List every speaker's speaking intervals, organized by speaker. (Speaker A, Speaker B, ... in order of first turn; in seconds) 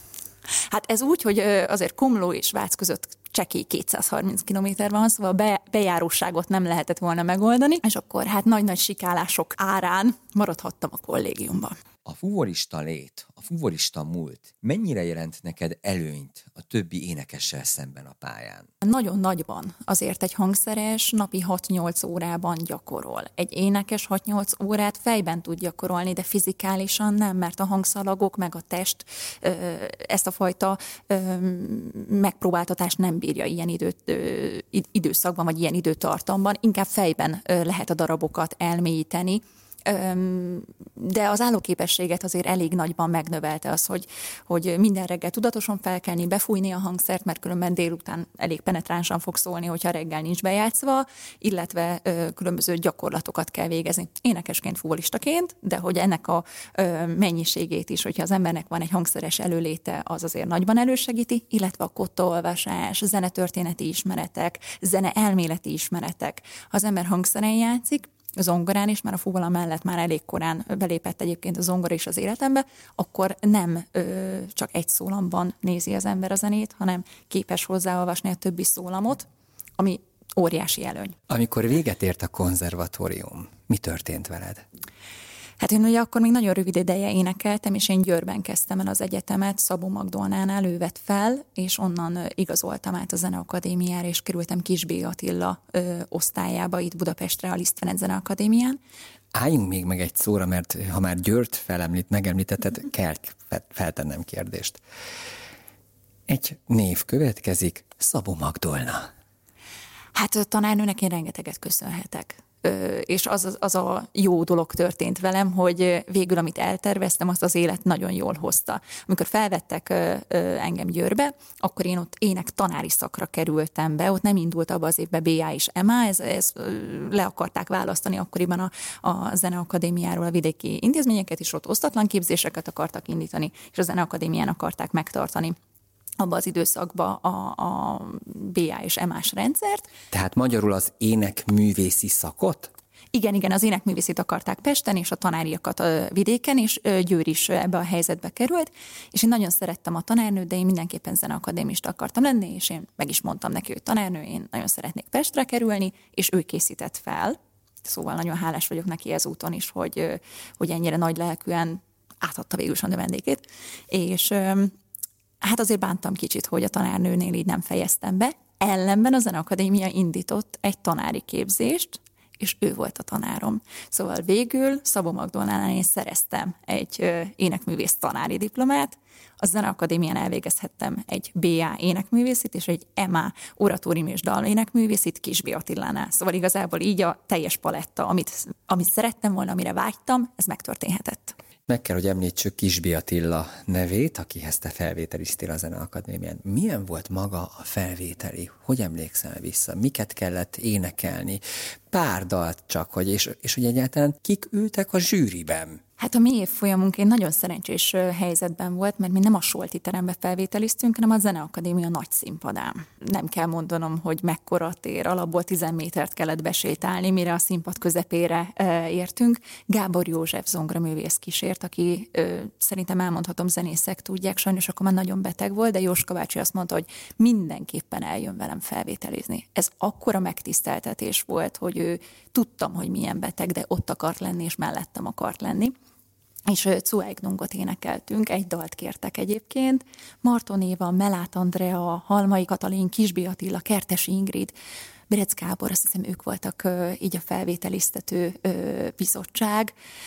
Speaker A: 0.7-11.8, 18.8-79.2, 79.8-81.2, 85.6-98.8, 110.1-135.6, 136.2-139.9, 143.1-164.7, 165.4-191.3, 206.0-235.7, 236.5-244.5, 245.1-249.7
Speaker B: 12.0-18.7
Speaker C: 81.3-84.6, 99.3-104.8, 106.3-109.1, 140.1-142.7, 191.7-205.8